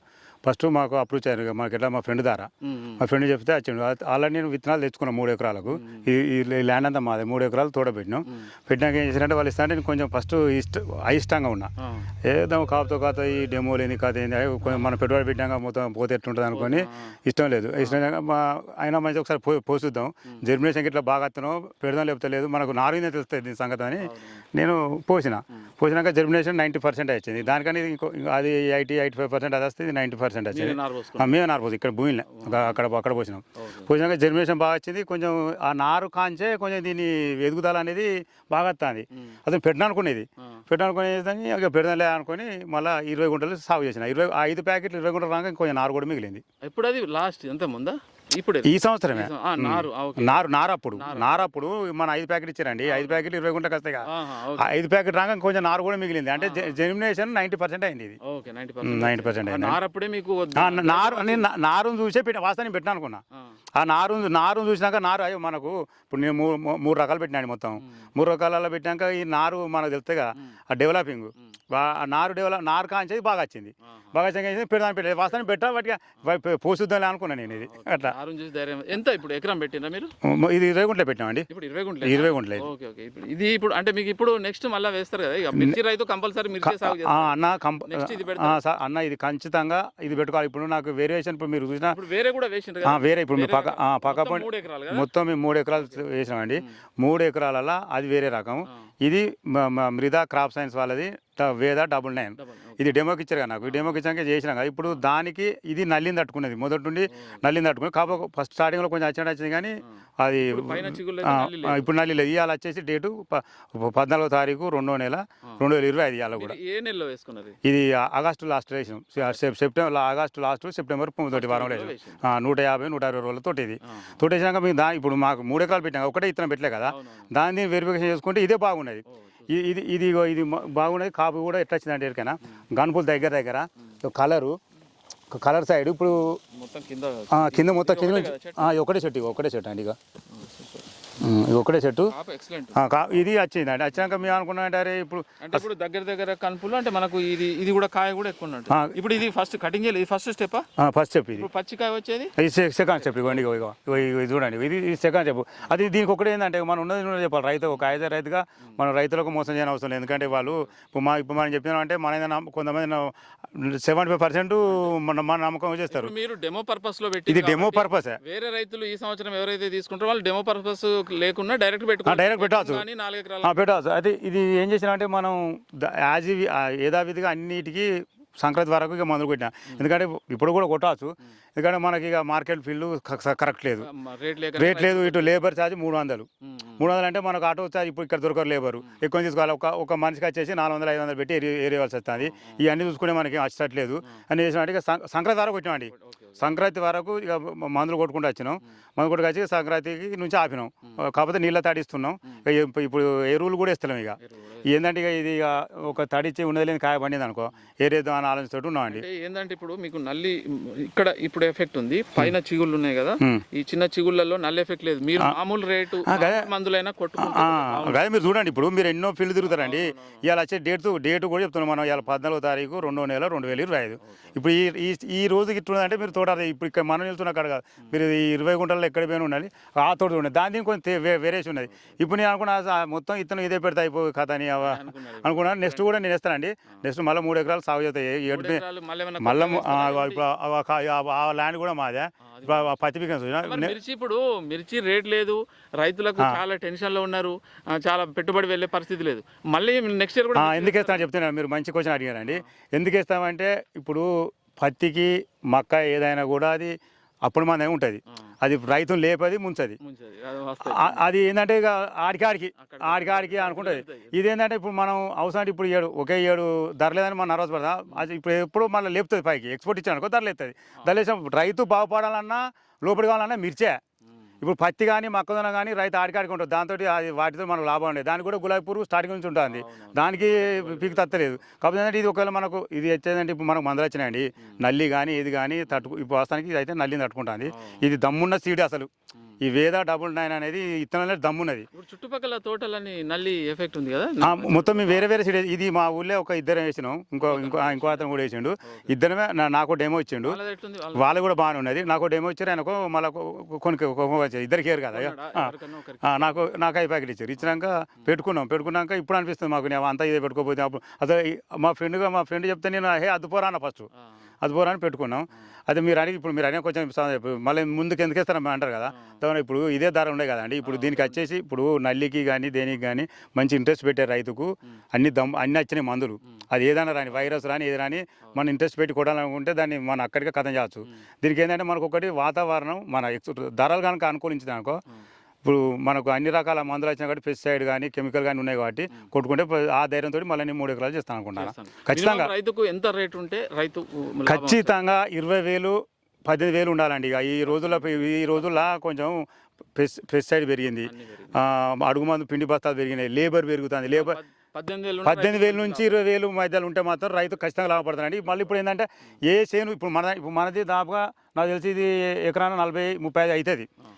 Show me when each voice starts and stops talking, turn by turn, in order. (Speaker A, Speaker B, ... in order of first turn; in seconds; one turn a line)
Speaker A: 0.4-11.7
Speaker B: 2.6-3.0
Speaker B: 5.7-6.1
Speaker B: 11.8-12.1
Speaker A: 12.2-46.4
Speaker B: 16.5-17.1
Speaker B: 24.0-24.4
Speaker B: 30.5-31.4
Speaker B: 32.3-32.8
Speaker B: 33.6-33.9
Speaker B: 46.6-50.4
Speaker A: 48.6-54.0
Speaker B: 51.0-51.5
Speaker B: 52.8-53.2
Speaker B: 54.1-54.7
Speaker A: 54.6-58.2
Speaker B: 56.4-56.7
Speaker B: 58.2-61.5
Speaker A: 58.8-59.8
Speaker A: 60.5-63.2
Speaker A: 63.8-78.2
Speaker B: 67.8-68.1
Speaker B: 77.5-80.1
Speaker A: 80.2-81.5
Speaker B: 81.5-87.3
Speaker A: 82.0-82.7
Speaker A: 85.5-85.8
Speaker A: 86.6-92.0
Speaker B: 87.9-88.6
Speaker B: 91.9-95.1
Speaker A: 92.8-116.6
Speaker B: 102.4-102.9
Speaker B: 103.6-104.0
Speaker B: 107.1-107.4
Speaker B: 110.4-111.9
Speaker B: 116.3-117.6
Speaker A: 117.6-134.6
Speaker B: 121.3-122.2
Speaker B: 123.8-124.2
Speaker B: 126.9-127.3
Speaker B: 129.1-129.5
Speaker A: 135.3-136.4
Speaker B: 136.4-138.7
Speaker A: 137.3-140.0
Speaker B: 140.3-140.9
Speaker A: 141.2-142.1
Speaker B: 142.1-143.2
Speaker A: 142.7-145.6
Speaker B: 143.9-144.3
Speaker B: 145.4-150.7
Speaker A: 148.7-149.0
Speaker A: 150.8-151.5
Speaker B: 151.4-152.3
Speaker A: 152.4-166.1
Speaker B: 153.0-153.5
Speaker B: 160.1-160.7
Speaker B: 165.9-173.6
Speaker A: 167.3-168.2
Speaker A: 172.0-172.8
Speaker A: 173.4-183.9
Speaker B: 183.8-185.4
Speaker A: 184.6-186.3
Speaker B: 186.4-186.8
Speaker A: 186.8-209.1
Speaker B: 192.2-192.6
Speaker B: 195.9-196.6
Speaker B: 204.2-204.7
Speaker B: 208.9-218.0
Speaker A: 216.1-216.5
Speaker A: 217.2-238.6
Speaker B: 219.4-220.2
Speaker B: 224.0-224.3
Speaker B: 234.6-235.9
Speaker B: 238.3-240.2
Speaker A: 239.2-243.7
Speaker B: 242.2-242.7
Speaker B: 243.4-251.1
Speaker A: 250.3-259.8
Speaker B: 259.8-261.0
Speaker A: 260.6-273.8
Speaker B: 262.6-264.1
Speaker A: 274.4-288.9
Speaker B: 279.5-281.2
Speaker B: 287.5-287.8
Speaker A: 289.4-291.7
Speaker B: 291.7-295.1
Speaker A: 294.2-300.4
Speaker B: 297.2-298.1
Speaker B: 300.2-301.2
Speaker A: 300.9-313.9
Speaker B: 304.8-306.4
Speaker B: 307.4-308.1
Speaker A: 314.4-334.8
Speaker B: 318.9-319.2
Speaker B: 320.6-321.2
Speaker A: 335.4-342.3
Speaker B: 341.4-344.7
Speaker A: 344.2-354.2
Speaker B: 347.4-348.5
Speaker B: 350.8-351.3
Speaker B: 353.9-355.9
Speaker A: 355.0-363.7